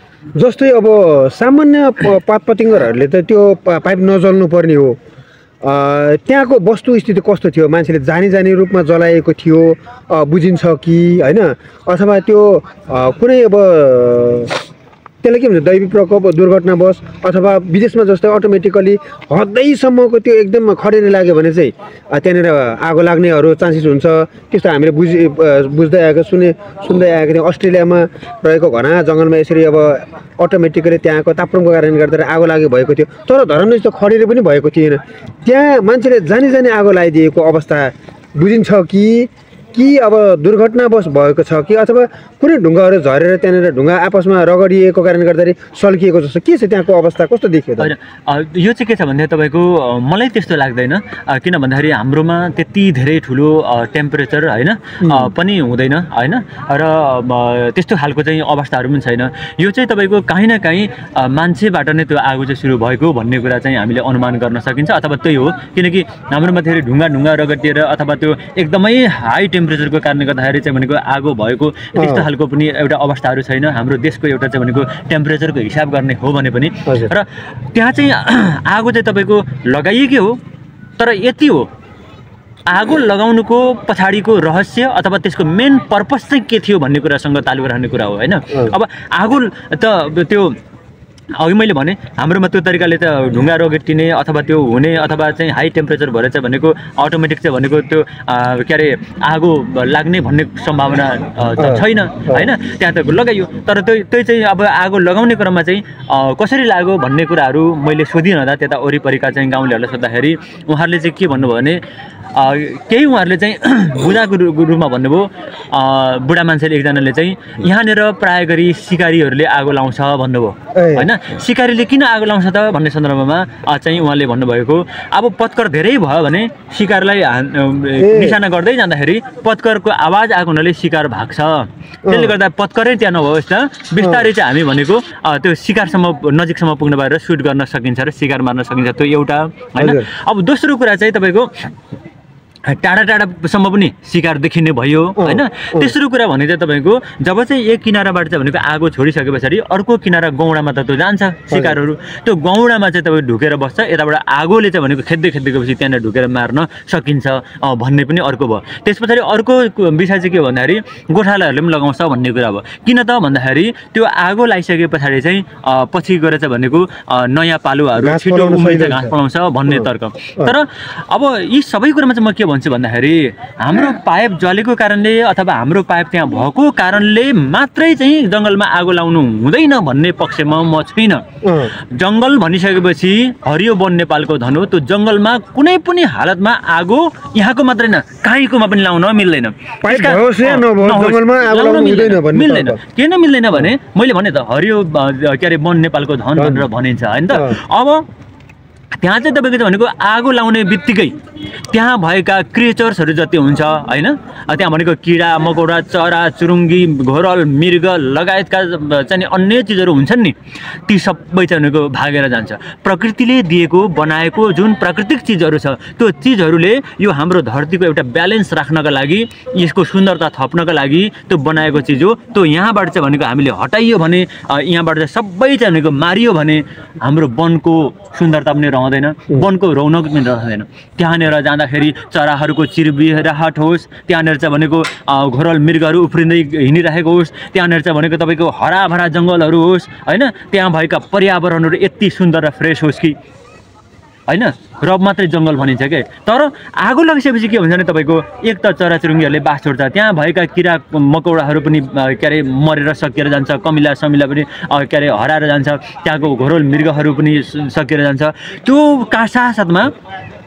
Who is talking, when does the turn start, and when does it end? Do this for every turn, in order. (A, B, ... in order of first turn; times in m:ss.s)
0:00.4-0:05.0 A
0:05.6-0:14.5 A
0:15.2-0:47.9 A
0:47.8-1:20.4 B
0:55.0-0:55.3 A
1:12.0-1:12.3 A
1:16.8-1:17.1 A
1:21.0-1:21.7 B
1:22.7-1:30.6 B
1:31.4-2:21.7 B
1:41.6-1:42.5 A
2:00.7-2:01.1 A
2:08.0-2:08.4 A
2:12.1-2:12.4 A
2:14.0-2:14.3 A
2:19.8-2:20.1 A
2:22.6-3:01.2 B
2:25.2-2:25.9 A
2:31.5-2:31.8 A
2:48.0-2:49.1 A
3:01.4-3:01.7 A
3:01.8-3:18.0 B
3:09.8-3:12.8 A
3:16.4-3:16.7 A
3:17.3-3:17.6 A
3:19.0-3:21.2 B
3:21.7-4:03.2 B
4:04.3-4:19.9 B